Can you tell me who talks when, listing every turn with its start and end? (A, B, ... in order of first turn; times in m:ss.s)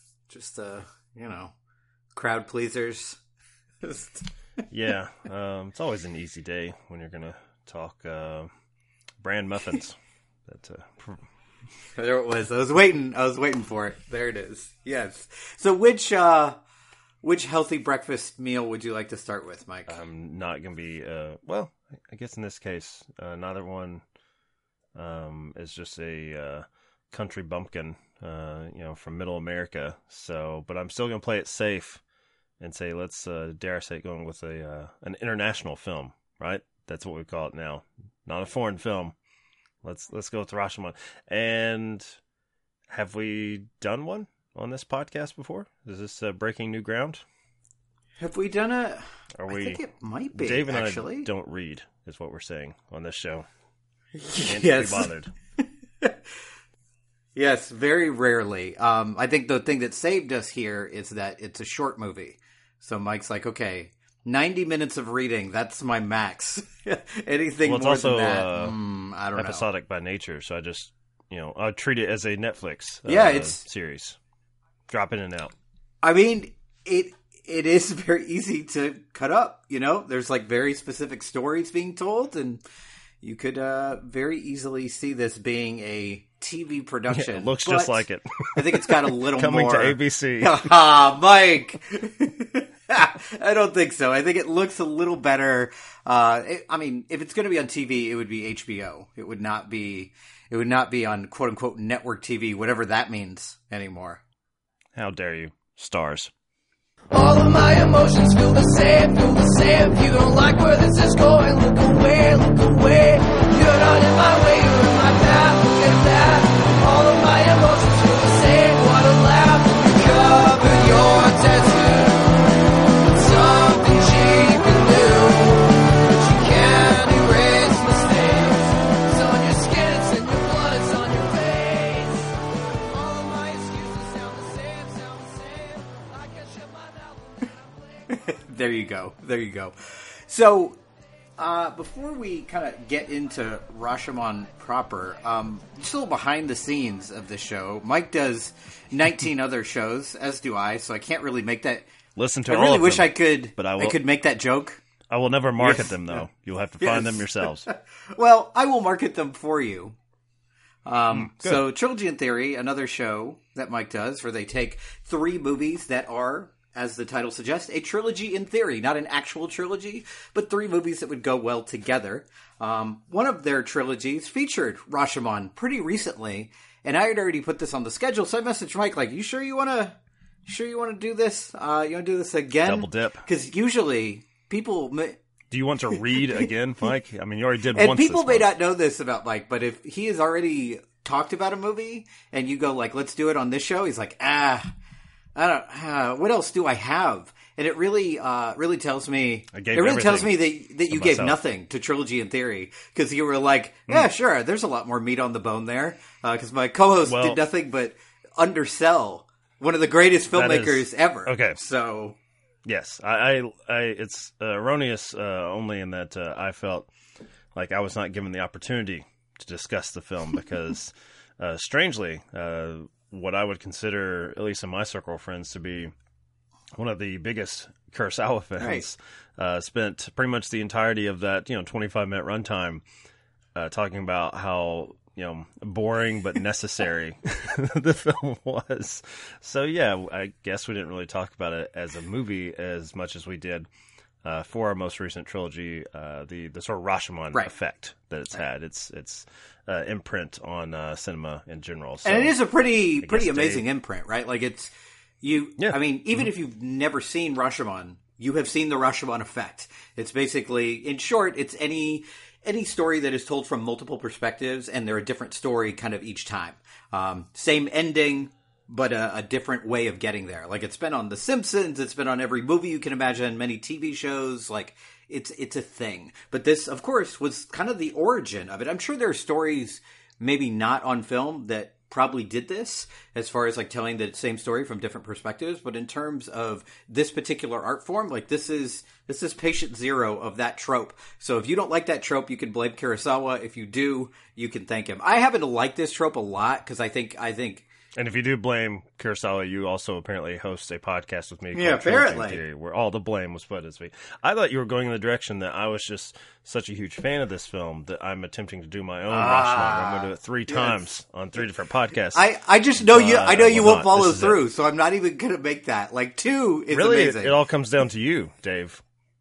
0:00.3-0:01.5 A
0:02.1-0:03.2 A
0:03.8-0:04.2 A
0:04.7-0:08.5 B
0:09.2-0:11.3 B
0:12.0-0:16.6 A
0:17.2-0:20.0 A
0:19.9-0:24.0 B
0:25.0-0:32.0 B
0:32.6-0:39.2 B
0:39.8-0:42.2 B
0:42.9-0:47.2 B
0:48.2-0:51.3 A
0:49.4-0:53.5 B
0:54.2-0:55.1 A
0:54.4-0:55.3 B
0:57.4-1:09.7 A
1:07.6-1:08.8 B
1:09.4-1:14.2 B
1:13.1-1:13.6 A
1:14.9-1:15.5 B
1:16.0-1:22.6 A
1:23.2-1:28.0 A
1:27.1-1:30.7 B
1:28.5-1:44.2 A
1:45.0-1:46.3 B
1:47.1-2:02.5 C
2:03.1-2:12.4 C
2:12.9-2:17.6 C
2:18.1-2:20.8 A
2:21.4-2:31.8 A
2:32.2-2:34.0 B
2:32.5-2:34.8 A
2:35.1-2:37.7 B
2:35.6-2:36.2 A
2:36.8-2:40.0 A
2:40.9-3:05.2 A
2:41.1-2:41.6 B
3:02.6-3:03.2 B
3:05.5-3:08.5 B
3:07.8-3:14.7 A
3:15.4-3:32.2 A
3:19.5-3:21.4 B
3:27.0-3:27.4 B
3:30.3-3:31.6 B
3:32.7-3:36.9 B
3:37.5-3:45.9 B
3:46.8-3:52.8 B
3:48.6-3:48.9 A
3:53.6-4:03.7 B
4:04.2-4:12.4 B
4:12.0-4:57.6 A
4:13.0-4:13.6 B
4:58.0-5:12.3 B
5:01.5-5:02.4 A
5:09.1-5:10.8 A
5:12.1-5:17.4 A
5:12.8-5:14.4 B
5:16.7-5:18.8 B